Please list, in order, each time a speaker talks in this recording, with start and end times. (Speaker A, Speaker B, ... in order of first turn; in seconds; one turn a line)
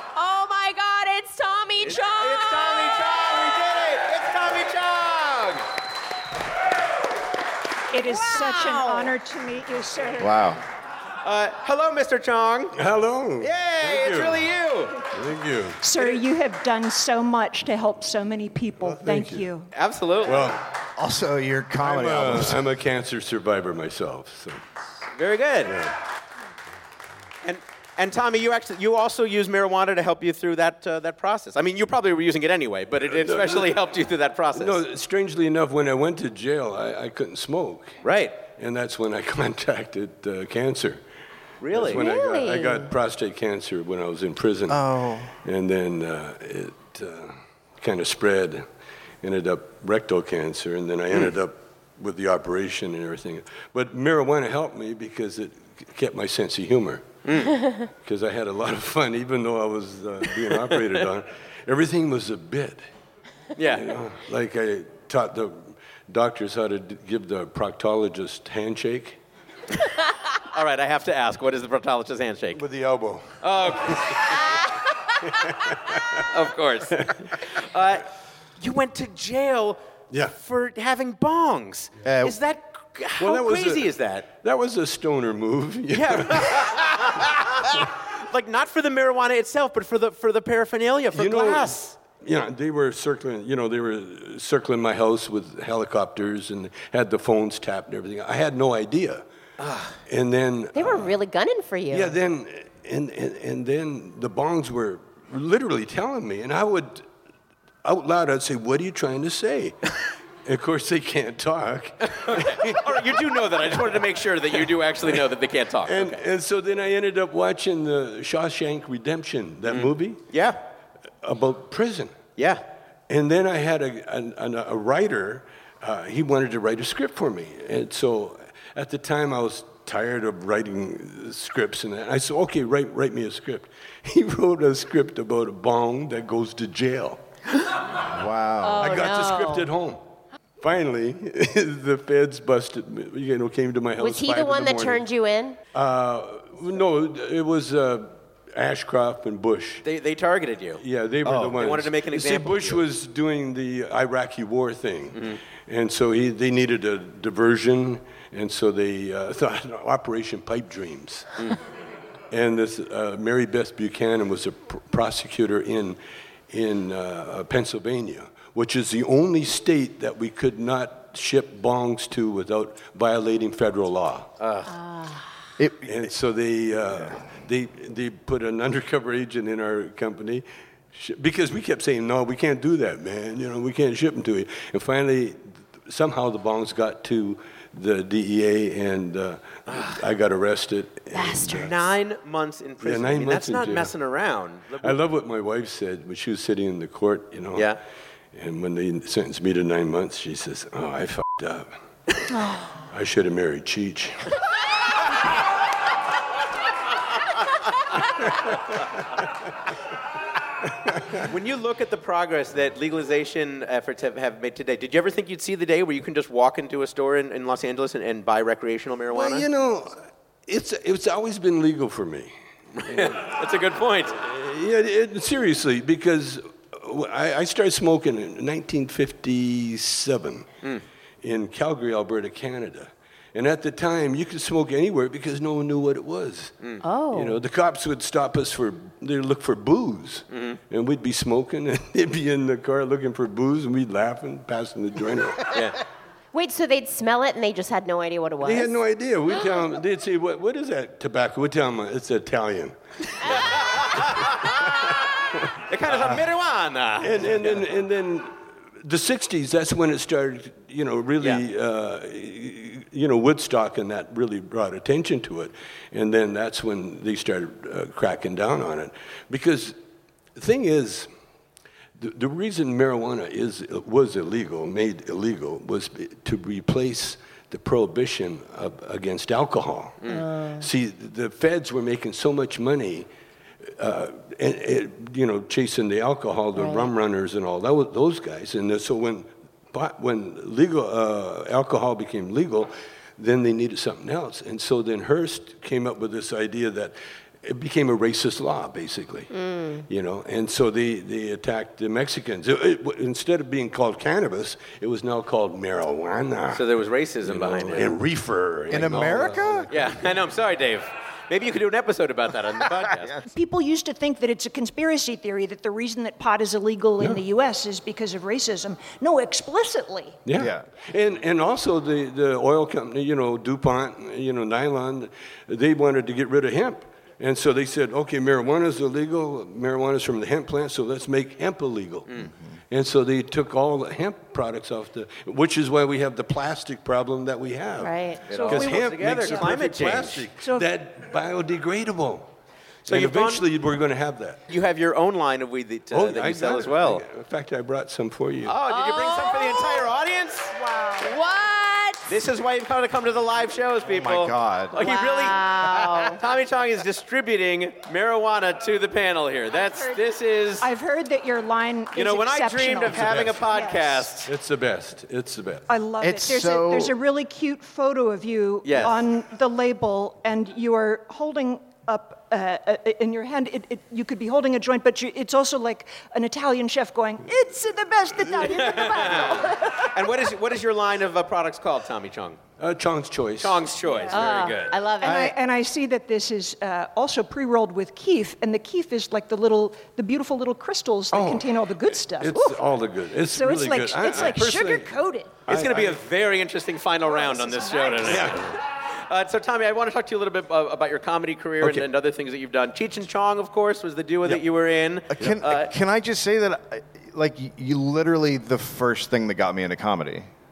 Speaker A: 0.1-3.0
Speaker B: 1.8-5.6
Speaker C: 7.9-10.4
Speaker A: 8.0-9.1
Speaker D: 10.2-10.6
Speaker B: 11.2-12.8
Speaker E: 12.7-14.5
Speaker B: 13.4-15.0
Speaker E: 15.1-15.8
Speaker C: 15.8-19.7
Speaker E: 18.8-19.5
Speaker B: 19.7-20.5
Speaker E: 20.2-20.6
Speaker D: 21.0-22.6
Speaker E: 21.8-24.6
Speaker B: 25.1-25.8
Speaker E: 25.6-25.9
Speaker B: 27.4-34.8
Speaker E: 33.0-33.8
Speaker E: 34.5-41.0
Speaker B: 38.0-38.4
Speaker B: 41.6-42.0
Speaker E: 41.7-44.8
Speaker A: 41.9-42.9
Speaker D: 44.7-45.3
Speaker E: 45.3-48.6
Speaker E: 49.2-57.1
Speaker B: 57.2-57.6
Speaker E: 58.0-62.8
Speaker B: 60.6-61.0
Speaker B: 63.6-64.0
Speaker E: 63.7-69.2
Speaker B: 70.5-72.6
Speaker E: 72.5-74.2
Speaker B: 73.4-74.7
Speaker E: 75.2-76.2
Speaker B: 76.3-78.1
Speaker E: 76.9-77.3
Speaker B: 78.6-84.3
Speaker D: 82.0-82.4
Speaker E: 83.2-87.2
Speaker B: 85.9-92.0
Speaker E: 91.1-99.2
Speaker B: 99.6-100.0
Speaker E: 100.1-101.2
Speaker A: 100.7-102.2
Speaker E: 101.9-107.0
Speaker E: 107.8-109.7
Speaker E: 110.4-114.0
Speaker B: 112.1-116.2
Speaker E: 115.8-120.2
Speaker B: 119.7-120.6
Speaker E: 121.2-122.2
Speaker B: 122.4-122.6
Speaker E: 123.1-137.2
Speaker D: 138.0-138.8
Speaker A: 138.6-139.7
Speaker E: 138.8-140.0
Speaker E: 140.6-145.0
Speaker A: 144.0-145.6
Speaker E: 145.7-149.8
Speaker B: 149.8-150.8
Speaker E: 150.8-161.5
Speaker D: 151.3-151.6
Speaker B: 151.4-152.8
Speaker B: 155.1-155.4
Speaker E: 162.3-166.0
Speaker E: 166.5-174.3
Speaker B: 174.4-174.7
Speaker D: 175.6-176.0
Speaker E: 175.8-191.9
Speaker B: 189.7-190.0
Speaker A: 191.1-191.6
Speaker B: 191.4-195.0
Speaker E: 192.8-193.9
Speaker E: 194.8-197.8
Speaker E: 198.3-201.7
Speaker E: 202.8-204.2
Speaker E: 210.9-211.2
Speaker B: 211.2-219.5
Speaker E: 219.1-222.3
Speaker B: 222.8-224.2
Speaker E: 222.8-223.4
Speaker E: 224.1-230.5
Speaker E: 231.2-236.5
Speaker A: 236.8-237.4
Speaker E: 237.1-245.6
Speaker B: 240.3-240.6
Speaker B: 245.5-245.8
Speaker A: 246.3-248.8
Speaker E: 248.4-253.6
Speaker B: 253.2-254.7
Speaker B: 255.7-257.6
Speaker E: 257.0-269.8
Speaker E: 270.3-271.1
Speaker E: 272.0-283.1
Speaker B: 280.0-280.3
Speaker A: 280.1-280.6
Speaker E: 283.8-299.3
Speaker A: 286.6-286.9
Speaker A: 299.3-299.8
Speaker E: 299.9-310.1
Speaker B: 306.5-307.9
Speaker D: 308.7-309.7
Speaker B: 309.7-313.2
Speaker C: 313.3-320.2
Speaker E: 320.2-342.3
Speaker D: 320.4-320.6
Speaker A: 337.8-338.2
Speaker C: 338.3-339.5
Speaker B: 338.3-340.2
Speaker C: 340.4-340.7
Speaker E: 342.9-344.4
Speaker B: 342.9-343.4
Speaker B: 344.5-347.0
Speaker E: 345.9-348.6
Speaker B: 348.4-350.5
Speaker A: 348.7-349.9
Speaker C: 350.6-351.1
Speaker A: 351.0-352.1
Speaker B: 352.1-360.7
Speaker D: 353.9-354.8
Speaker A: 354.7-356.2
Speaker C: 360.6-364.1
Speaker B: 361.9-364.3
Speaker E: 362.9-363.5
Speaker E: 364.2-365.6
Speaker C: 365.7-379.9
Speaker D: 366.0-366.9
Speaker B: 368.6-369.0
Speaker B: 378.4-382.4
Speaker E: 382.6-383.7
Speaker B: 383.4-384.8
Speaker C: 383.8-384.2
Speaker A: 384.1-385.3
Speaker C: 385.0-392.7
Speaker E: 391.1-396.1
Speaker C: 393.3-395.4
Speaker B: 395.5-405.7
Speaker C: 397.1-398.3
Speaker E: 398.0-398.6
Speaker E: 401.6-401.9
Speaker D: 405.1-410.3